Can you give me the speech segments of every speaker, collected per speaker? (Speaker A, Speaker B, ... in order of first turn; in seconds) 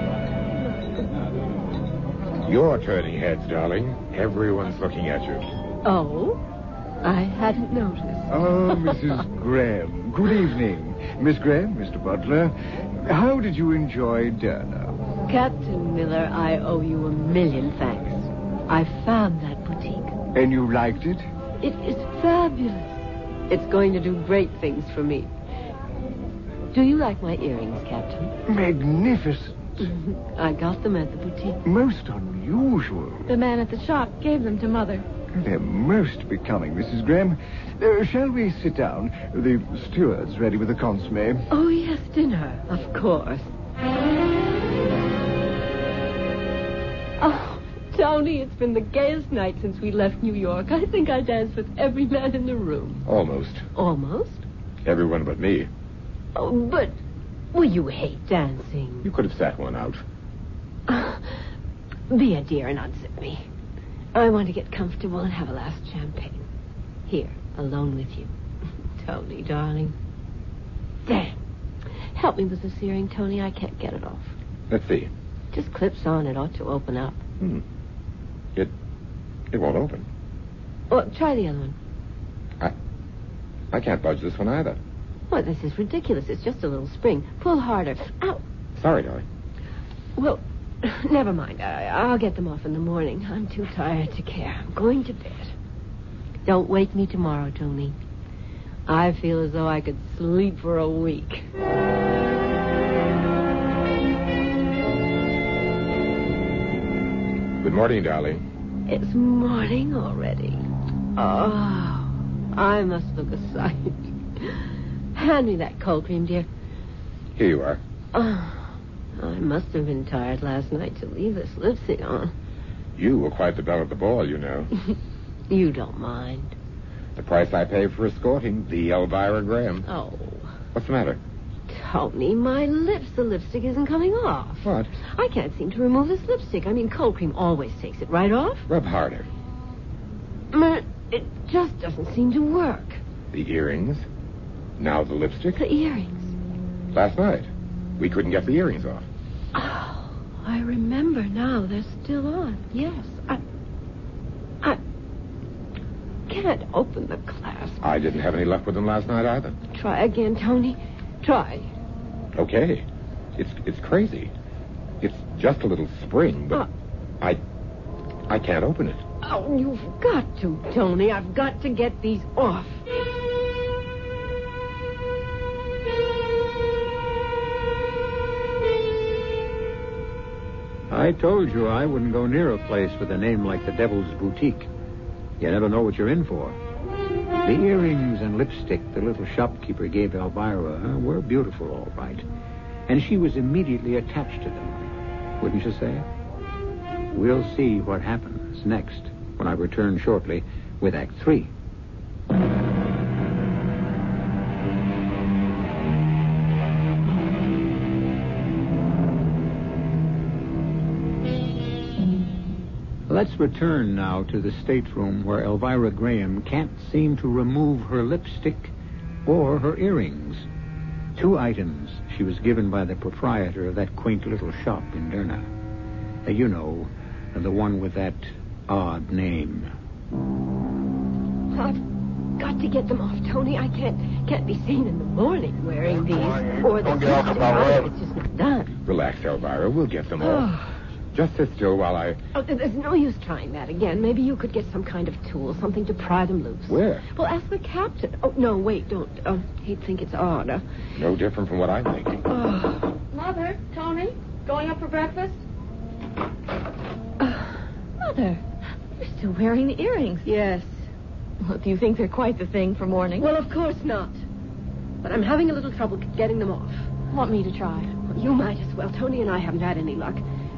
Speaker A: 2.5-5.5, 53.1-53.7, 54.9-55.7, 59.0-60.0, 74.7-75.1, 79.5-80.1, 83.7-84.8, 88.8-89.2, 107.6-108.4, 117.4-117.8, 123.0-124.7, 127.2-129.9, 130.8-131.2, 134.6-134.9, 138.7-139.3, 143.3-144.1, 144.8-145.6, 146.9-149.1, 157.8-159.6, 162.3-162.8, 163.4-164.3, 165.0-166.7, 168.3-169.0, 238.9-240.5, 241.1-242.2, 246.7-247.1, 250.9-252.2
Speaker B: 5.8-6.4, 7.0-9.1, 15.3-20.1, 21.6-25.3, 26.7-28.4, 29.8-31.6, 41.5-43.5, 47.2-53.0, 53.8-54.5, 56.4-57.0, 57.5-59.1, 60.9-61.4, 62.1-63.5, 64.1-66.4, 67.1-68.3, 69.0-70.0, 71.1-71.4, 72.1-74.3, 75.5-77.2, 80.9-81.8, 85.3-88.4, 90.2-95.5, 96.5-98.0, 98.9-101.5, 108.9-110.7, 111.2-114.6, 115.2-116.5, 118.1-122.3, 125.5-126.5, 129.9-130.5, 131.7-138.7, 140.5-143.0, 145.6-146.3, 149.5-153.4, 156.3-157.8, 159.7-161.7, 169.2-172.8, 231.5-231.8, 232.4-238.7, 240.2-240.7, 242.3-250.6, 252.3-252.9, 257.2-257.6, 260.2-260.9, 263.2-264.2, 265.0-266.9, 268.1-270.2
Speaker C: 8.3-15.0, 20.4-21.3, 28.5-29.9, 31.6-33.3, 35.3-41.5
Speaker D: 33.3-35.1, 253.1-255.4, 258.0-258.4, 258.9-260.3, 261.4-263.3, 267.1-267.9
Speaker E: 180.9-184.7, 185.4-186.6, 187.4-192.2, 192.9-196.1, 197.1-201.5, 213.1-218.7, 219.3-220.5, 221.2-225.5, 226.2-229.7